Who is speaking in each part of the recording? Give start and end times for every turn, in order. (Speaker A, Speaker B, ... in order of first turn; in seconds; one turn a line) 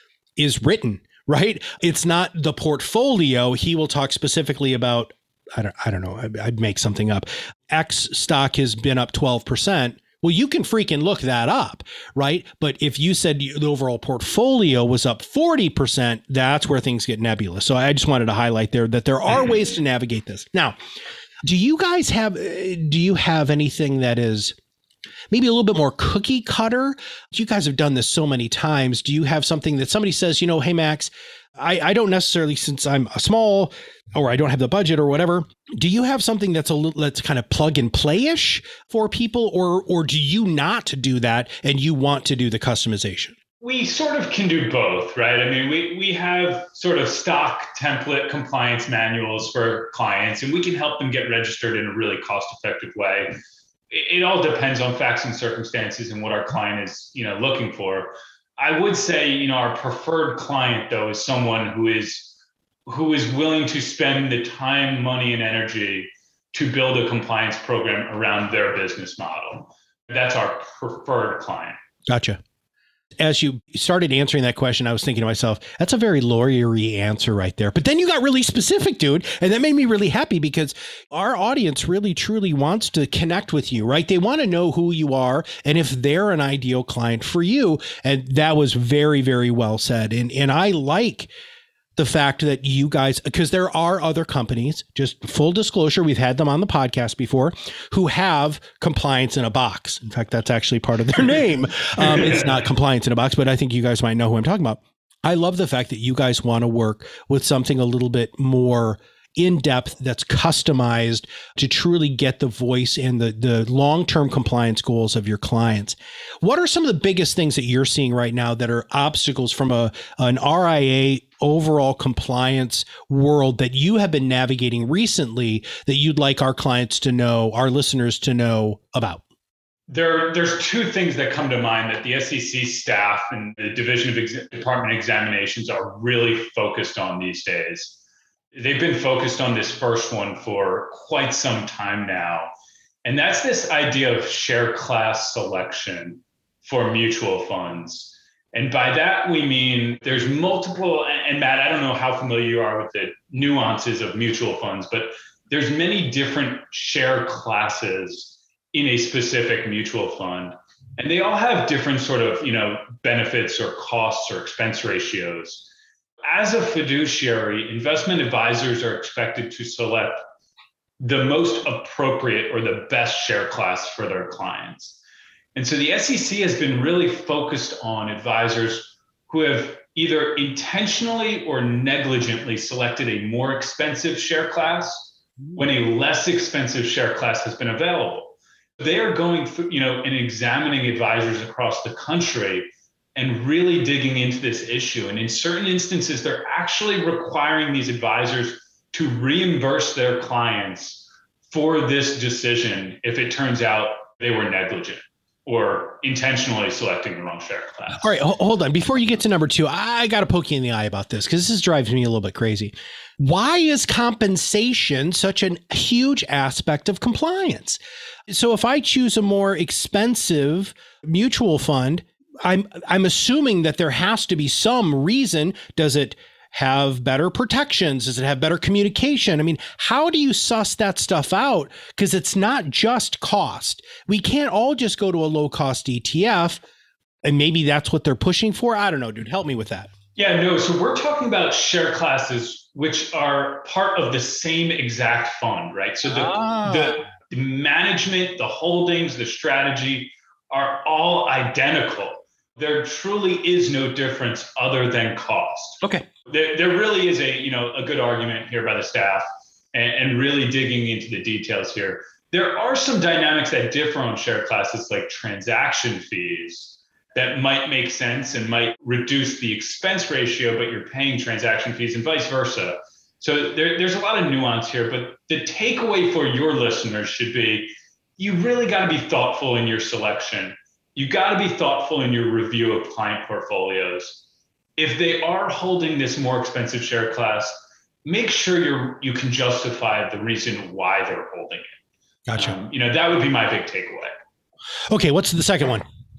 Speaker A: 0.4-20.8
Speaker A: 21.4-24.6
Speaker A: 25.3-43.4
Speaker B: 43.6-53.4
Speaker B: 53.9-62.3
Speaker B: 62.9-71.8
Speaker A: 72.1-72.4
Speaker A: 73.2-91.3
Speaker A: 92.0-129.2
Speaker B: 129.9-138.0
Speaker B: 138.5-142.5
Speaker B: 143.1-165.7
Speaker B: 166.3-170.2
Speaker B: 171.0-175.0
Speaker B: 175.6-208.2
Speaker A: 208.0-236.6
Speaker A: 237.2-239.9
Speaker B: 240.2-284.2
Speaker A: 246.1-247.0
Speaker B: 284.8-291.7
Speaker A: 292.3-292.6
Speaker B: 292.4-294.1
Speaker A: 294.9-295.9